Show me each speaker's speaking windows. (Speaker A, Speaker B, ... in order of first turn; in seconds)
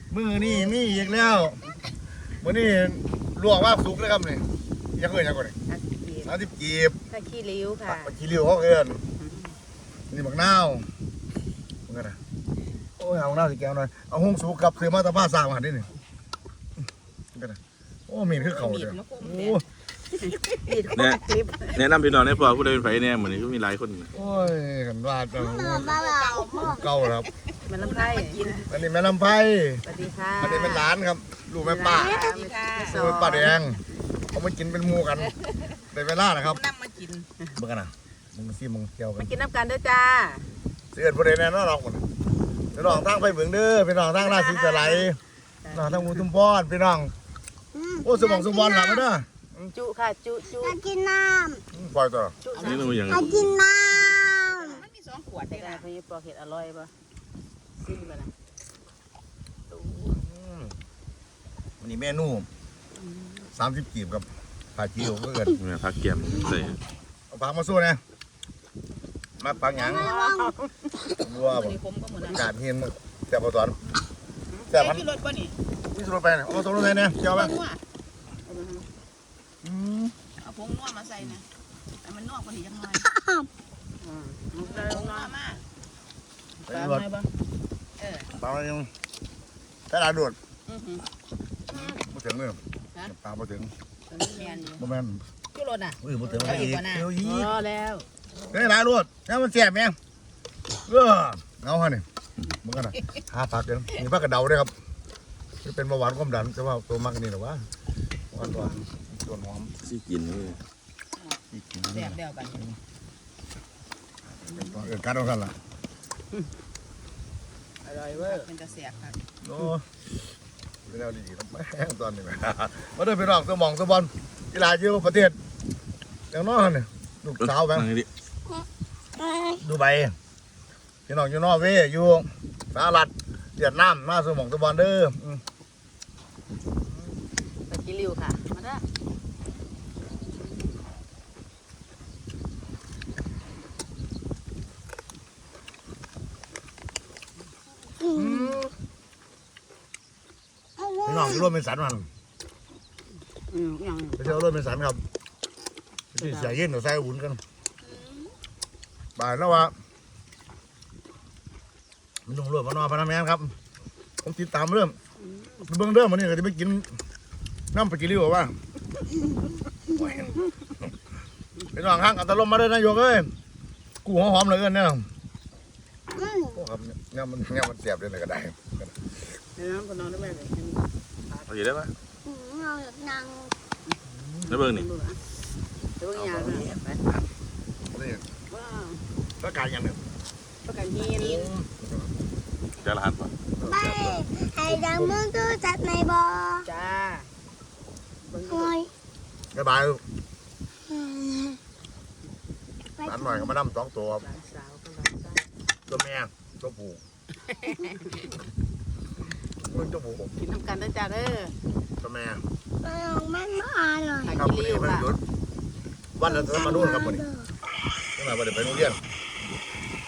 Speaker A: 0.1-1.6, 2.4-4.5, 5.0-5.5, 6.2-7.0, 7.8-9.0, 10.1-10.9, 11.9-12.2, 13.0-15.9, 17.3-19.6, 24.1-25.9, 26.6-27.3, 28.7-29.9, 30.4-32.3, 32.9-35.4, 35.9-36.6, 37.5-39.3, 40.9-42.0, 42.7-45.2, 45.7-47.1, 48.0-49.7, 51.7-52.4, 60.0-60.7, 61.8-62.5, 63.5-65.6, 67.3-68.0, 69.4-70.1, 71.2-73.8, 74.7-75.0, 75.9-77.5, 79.6-80.1, 86.7-87.1, 88.3-88.9, 89.9-90.3, 91.7-93.7, 94.8-95.2, 96.0-97.5, 98.5-100.0, 100.8-102.0, 102.6-104.7, 105.6-107.7, 108.3-109.7, 111.5-112.6, 114.5-115.5, 119.4-120.0, 120.8-125.4, 126.3-127.9, 129.6-130.2, 131.1-135.4, 148.1-148.7, 151.0-152.1, 154.2-155.0, 156.1-157.4, 159.2-159.7, 162.2-163.5, 164.2-165.0, 165.7-167.0, 167.7-168.5, 169.9-170.4, 171.7-173.3, 174.0-175.1, 176.5-179.1, 184.1-184.4, 186.2-186.7, 187.9-188.2, 189.4-190.0, 191.1-192.1, 193.6-195.2, 199.5-200.0, 203.0-204.2, 205.9-207.0, 209.6-210.3, 212.0-212.4, 214.3-215.2, 216.2-217.3, 218.2-219.0
Speaker B: 7.1-8.1, 20.6-21.8, 27.7-28.6, 29.9-30.9, 31.6-33.6, 39.2-40.5, 44.5-45.0, 45.6-46.0, 49.7-50.8, 52.4-53.5, 55.5-56.9, 57.8-58.3, 63.1-63.4, 69.8-70.6, 78.5-78.8, 84.0-85.3, 86.7-87.3, 94.1-94.8, 96.2-98.0, 117.8-118.5, 137.7-138.8, 153.5-154.3, 156.2-156.5, 165.2-165.6, 179.6-180.8, 184.6-185.2, 186.0-186.7, 188.5-189.0, 196.7-197.2, 198.2-198.7, 204.2-205.5, 210.4-211.6, 214.2-215.1
Speaker C: 18.3-19.6, 20.2-20.6, 25.7-28.7, 31.9-33.5, 35.4-35.8, 36.4-37.3, 52.5-53.4, 54.5-55.8, 71.4-72.5, 74.5-75.5, 76.9-77.8, 80.4-81.5, 82.0-83.1, 84.6-85.6, 88.0-88.3, 90.7-91.1, 91.7-92.0, 94.3-94.8, 95.5-97.1, 108.4-108.7, 111.9-112.7, 118.1-119.2, 157.8-158.3, 190.7-191.5
Speaker D: 20.9-21.2, 21.7-24.1, 52.6-53.3, 65.5-66.8, 109.8-110.6, 127.7-128.1, 181.5-181.9, 184.5-184.9, 192.8-193.3
Speaker E: 25.3-26.8, 47.7-49.1, 50.5-51.6, 53.1-54.8, 69.8-70.5, 83.0-83.5, 129.2-129.6, 148.0-148.5, 150.8-151.5, 176.1-176.6, 182.2-183.5, 193.6-196.7, 198.4-198.9, 200.9-201.6, 203.0-203.5, 212.8-214.4, 216.2-217.5